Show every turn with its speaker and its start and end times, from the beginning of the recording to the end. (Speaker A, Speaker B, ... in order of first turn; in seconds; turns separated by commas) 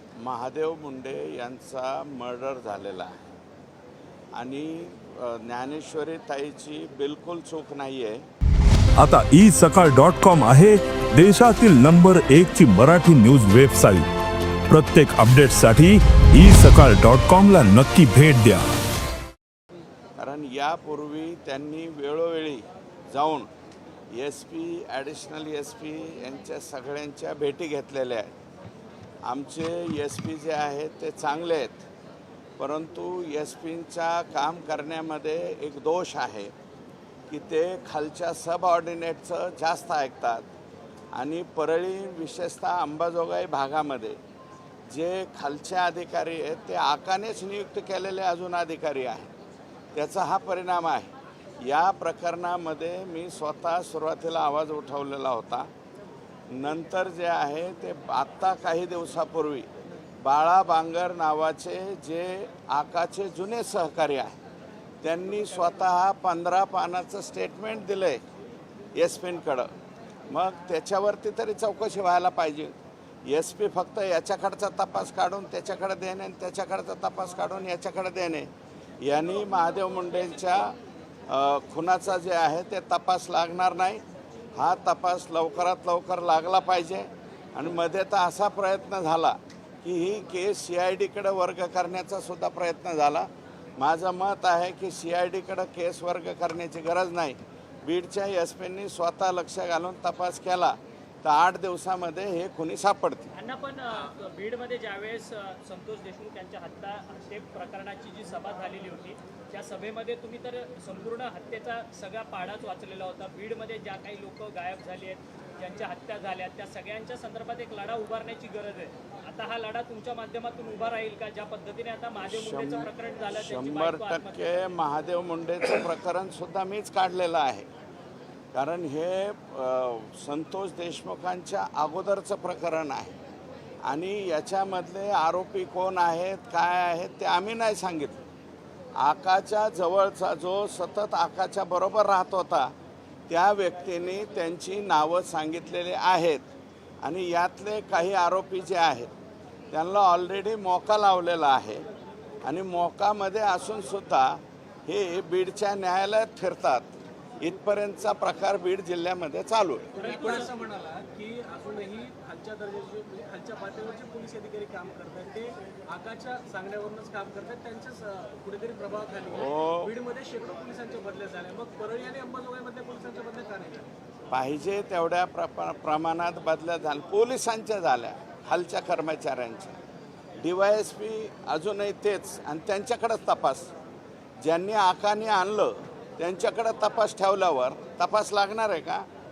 Speaker A: 0.2-3.2, Speaker A: 4.3-8.3, Speaker B: 9.0-14.1, Speaker B: 14.7-18.7, Speaker A: 20.2-23.5, Speaker A: 24.1-28.3, Speaker A: 29.2-31.9, Speaker A: 32.6-36.5, Speaker A: 37.3-40.5, Speaker A: 41.1-44.2, Speaker A: 44.9-49.3, Speaker A: 49.9-55.7, Speaker A: 56.5-59.7, Speaker A: 60.2-64.4, Speaker A: 65.0-68.2, Speaker A: 69.0-69.7, Speaker A: 70.3-72.8, Speaker A: 73.3-80.8, Speaker A: 81.3-84.0, Speaker A: 84.6-103.3, Speaker C: 103.3-124.5, Speaker A: 122.2-127.7, Speaker A: 128.5-133.2, Speaker A: 133.8-138.2, Speaker A: 139.0-142.7, Speaker A: 143.3-146.5, Speaker A: 147.0-149.1, Speaker A: 149.7-151.8, Speaker A: 152.4-160.0, Speaker D: 159.9-173.9, Speaker C: 160.0-160.5, Speaker A: 169.3-169.9, Speaker A: 174.3-179.8, Speaker A: 180.4-183.7, Speaker A: 184.4-189.1